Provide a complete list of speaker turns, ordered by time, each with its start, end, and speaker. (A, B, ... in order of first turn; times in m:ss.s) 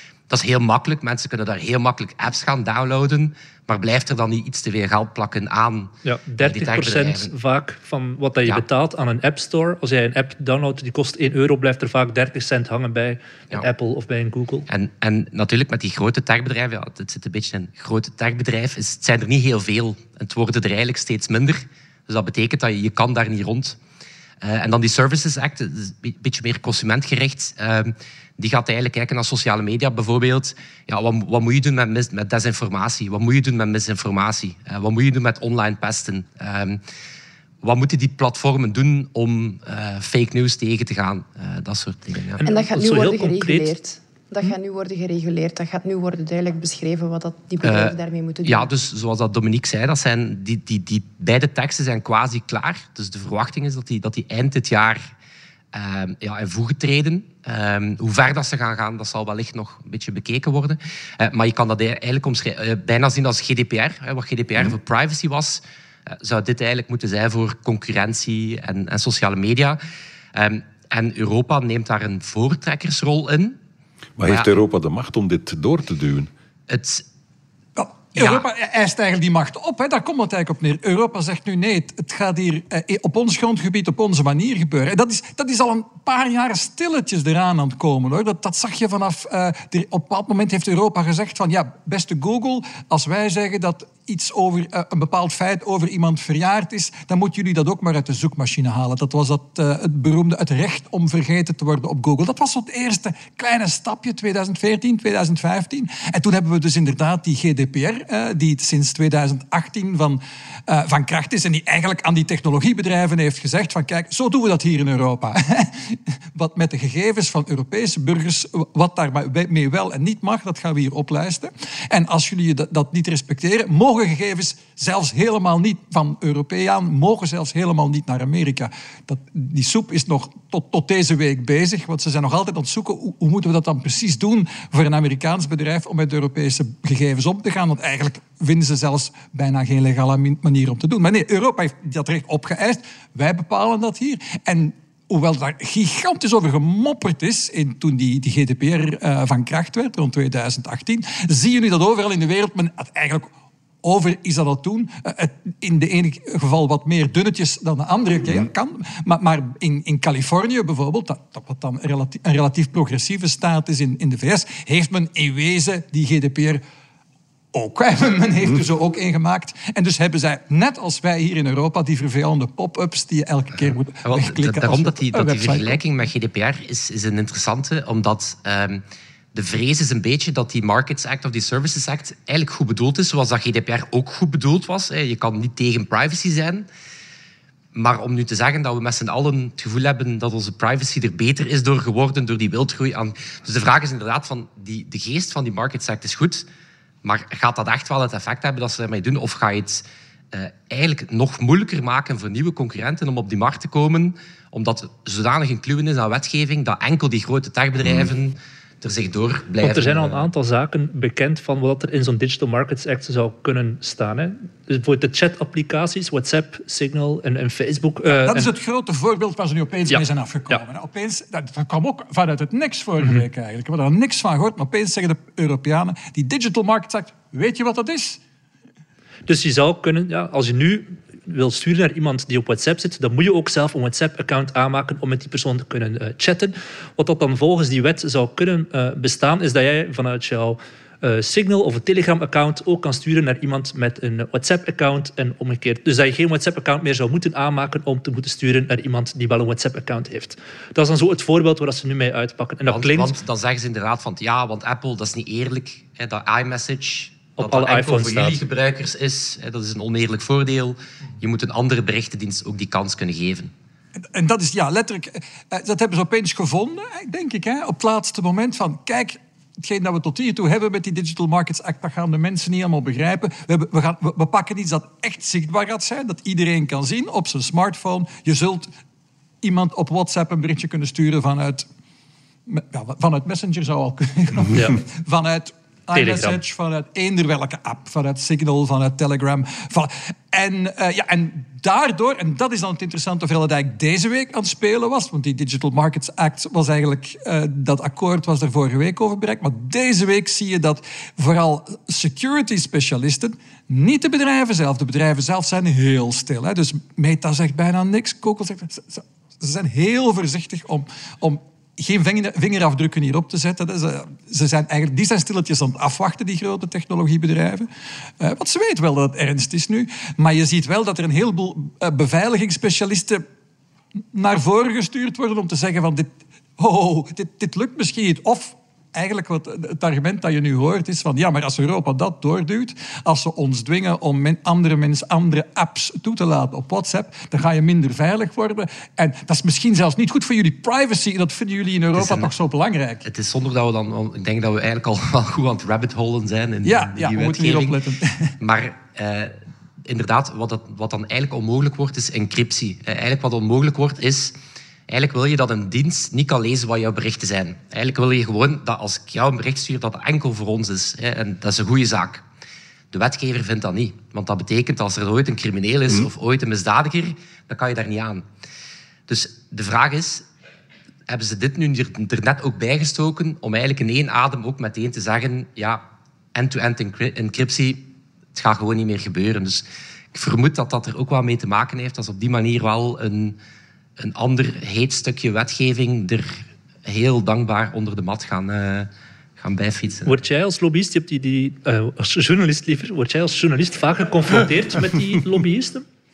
0:00.3-0:07.3 A
0:06.0-0:14.7 B
0:14.7-0:23.8 A
0:24.4-0:36.8 A
0:37.6-0:42.4 A
0:42.4-0:43.7 B
0:42.4-0:48.7 C
0:47.6-0:55.1 A
0:55.7-1:09.8 A
1:10.3-1:13.6 A
1:14.2-1:16.3 D
1:16.7-1:17.0 A
1:17.8-2:33.3 E
1:18.1-1:18.4 A
2:33.8-2:46.6 E
2:47.5-2:55.8 E
2:54.0-2:58.8 A
2:59.3-3:06.7 A
3:07.7-3:16.4 A
3:17.0-3:30.2 A
3:29.6-3:38.5 B
3:38.1-3:48.2 E
3:39.9-3:40.6 B
3:49.3-4:13.2 B
4:12.7-4:23.5 A
4:17.4-4:18.4 B
4:24.0-4:38.7 E
4:39.4-4:41.6 E
4:42.5-5:17.7 E
4:44.5-4:44.8 B
4:45.9-4:46.4 B
5:18.2-5:23.2 E
5:24.1-5:43.0 E
5:41.9-5:42.3 A
5:43.0-5:47.8 A
5:46.6-5:48.4 E
5:48.4-5:54.4 A
5:54.9-6:02.2 A
6:02.9-6:08.2 A
6:09.1-6:10.2 A
6:11.1-6:15.8 A
6:16.3-6:23.4 A
6:24.0-6:30.1 A
6:30.0-6:35.8 B